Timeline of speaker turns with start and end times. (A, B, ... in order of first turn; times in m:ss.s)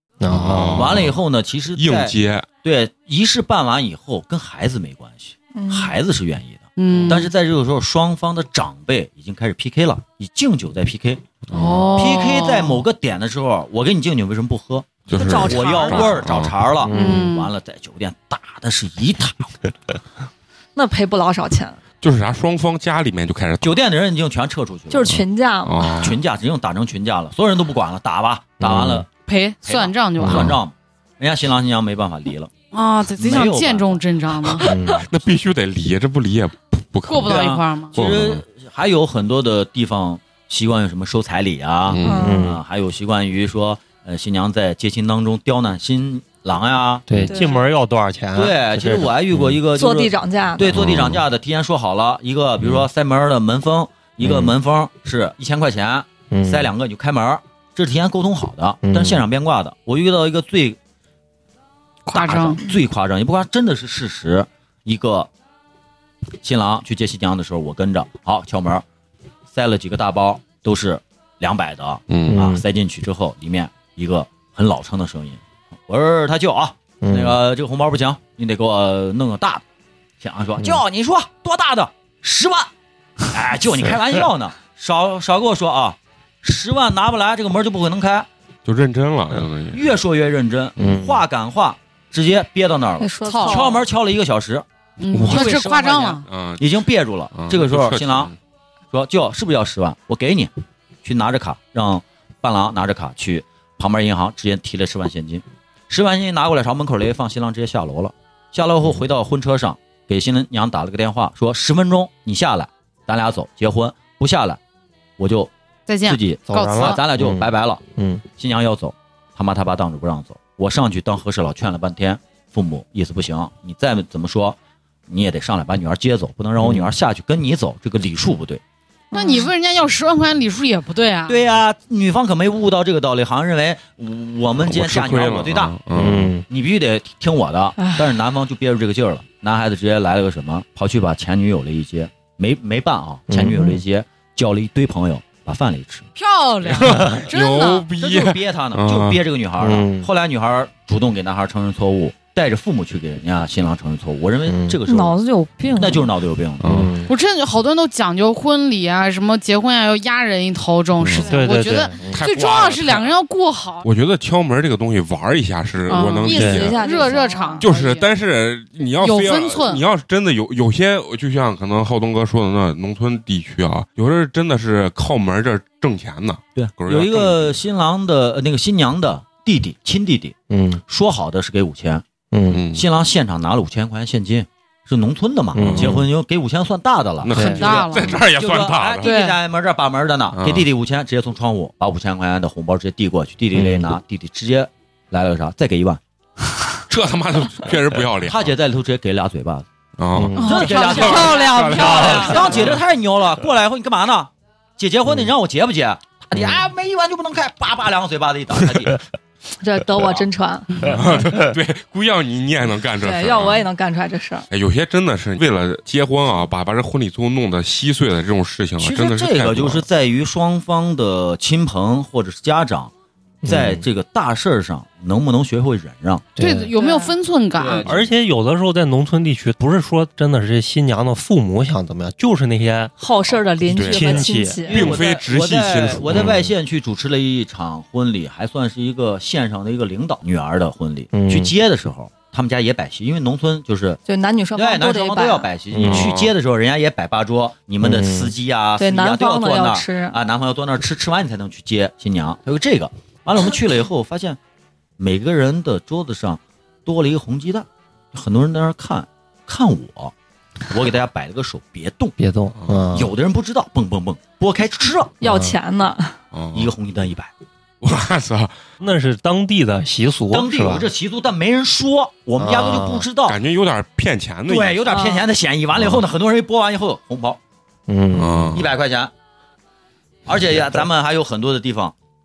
0:00.2-0:01.1 A
0:00.3-0:01.2 B
0:00.7-0:11.3 C
0:01.8-0:02.5 B
0:05.5-0:06.0 D
0:06.8-0:07.3 E
0:11.5-0:12.3 B
0:11.5-0:12.8 E
0:11.9-0:19.6 C
0:15.1-0:16.6 B
0:15.1-0:16.3 D
0:16.8-0:17.3 A
0:16.9-0:17.5 E
0:20.8-0:21.8 D
0:22.0-0:23.8 B
0:23.6-0:25.1 C
0:24.9-0:26.1 D
0:25.1-0:26.2 B
0:26.0-0:29.1 C
0:28.6-0:29.0 A
0:29.2-0:30.6 E
0:29.6-0:32.5 C
0:30.2-0:30.6 B
0:32.7-0:34.8 E
0:33.1-0:34.0 C
0:34.6-0:35.0 A
0:34.7-0:35.0 D
0:34.9-0:38.4 B
0:37.1-0:38.0 E
0:37.2-0:47.1 C
0:41.9-0:42.3 B
0:42.0-0:42.6 D
0:42.1-0:42.6 A
0:47.1-0:49.6 A
0:47.3-0:47.7 D
0:48.3-1:00.8 C
0:49.7-0:50.8 D
0:50.7-0:51.2 B
0:54.2-0:54.6 A
0:56.3-0:56.7 A
0:58.8-0:59.2 A
1:02.1-1:02.6 E
1:02.1-1:05.3 C
1:06.4-1:08.8 C
1:09.5-1:19.6 C
1:12.1-1:12.4 B
1:12.3-1:12.6 A
1:17.0-1:17.4 A
1:20.2-1:22.7 C
1:23.3-1:28.3 C
1:28.6-1:29.8 B
1:29.7-1:34.7 C
1:30.8-1:31.2 A
1:33.0-1:33.8 D
1:33.3-1:33.8 E
1:35.0-1:36.3 E
1:35.1-1:36.7 B
1:35.2-1:38.3 C
1:35.3-1:36.0 D
1:37.3-1:38.4 B
1:38.9-1:40.5 C
1:41.0-1:54.6 C
1:55.2-1:55.5 C
1:55.9-1:57.0 E
1:56.0-1:57.8 C
1:56.5-1:58.2 A
1:58.4-2:08.6 C
2:06.6-2:06.9 A
2:09.1-2:09.5 D
2:09.1-2:11.4 E
2:11.3-2:15.7 C
2:14.7-2:16.4 B
2:15.9-2:16.4 A
2:16.5-2:26.1 C
2:23.3-2:23.8 A
2:26.2-2:27.9 E
2:26.8-2:29.2 B
2:28.0-2:35.2 C
2:29.6-2:30.1 A
2:34.5-2:34.8 A
2:34.9-2:36.1 D
2:35.7-2:36.7 C
2:36.6-2:37.0 B
2:36.6-2:37.1 A
2:37.1-2:43.9 E
2:41.0-2:41.4 B
2:41.1-2:42.2 A
2:42.0-2:43.1 B
2:43.8-2:57.5 B
2:45.9-2:47.7 E
2:46.2-2:48.1 D
2:46.3-2:46.7 A
2:49.0-2:49.8 E
2:56.6-3:00.4 C
3:00.5-3:00.8 A
3:00.9-3:02.0 C
3:02.3-3:02.6 A
3:02.5-3:02.8 B
3:02.7-3:07.7 C
3:05.5-3:06.1 A
3:05.6-3:06.0 B
3:07.2-3:09.1 B
3:07.3-3:07.7 A
3:07.4-3:08.2 E
3:08.3-3:16.0 C
3:09.0-3:09.4 E
3:10.3-3:10.7 B
3:13.5-3:13.9 A
3:16.9-3:18.5 B
3:18.3-3:19.7 C
3:20.0-3:22.7 B
3:20.1-3:20.6 A
3:20.4-3:22.7 E
3:20.4-3:29.0 C
3:20.9-3:22.1 D
3:21.9-3:22.3 A
3:29.6-3:30.9 D
3:30.8-3:33.7 B
3:33.0-3:34.5 D
3:34.5-3:39.8 B
3:38.8-3:42.9 C
3:43.4-3:43.8 A
3:43.5-3:46.3 C
3:46.4-3:46.7 A
3:46.4-3:47.9 E
3:46.8-3:47.2 D
3:47.6-3:48.1 C
3:47.8-3:52.9 A
3:53.0-3:55.0 D
3:53.6-3:54.6 A
3:53.7-3:56.4 B
3:54.7-4:04.0 C
4:01.1-4:01.5 A
4:04.1-4:05.5 D
4:04.6-4:14.4 C
4:05.7-4:06.1 A
4:05.8-4:06.3 B
4:07.8-4:08.3 A
4:08.8-4:10.2 D
4:15.0-4:20.1 C
4:20.7-4:22.2 C
4:22.2-4:23.1 A
4:22.6-4:22.9 B
4:22.9-4:25.1 C
4:25.2-4:26.2 D
4:25.2-4:25.6 A
4:26.3-4:26.7 B
4:26.5-4:27.3 C
4:27.8-4:28.6 B
4:28.8-4:30.9 A
4:30.3-4:33.4 C
4:32.4-4:33.1 A
4:33.3-4:34.8 B
4:34.5-4:37.4 C
4:34.9-4:35.3 D
4:37.9-4:38.6 A
4:38.1-4:38.7 B
4:38.5-4:39.1 C
4:40.3-4:41.9 C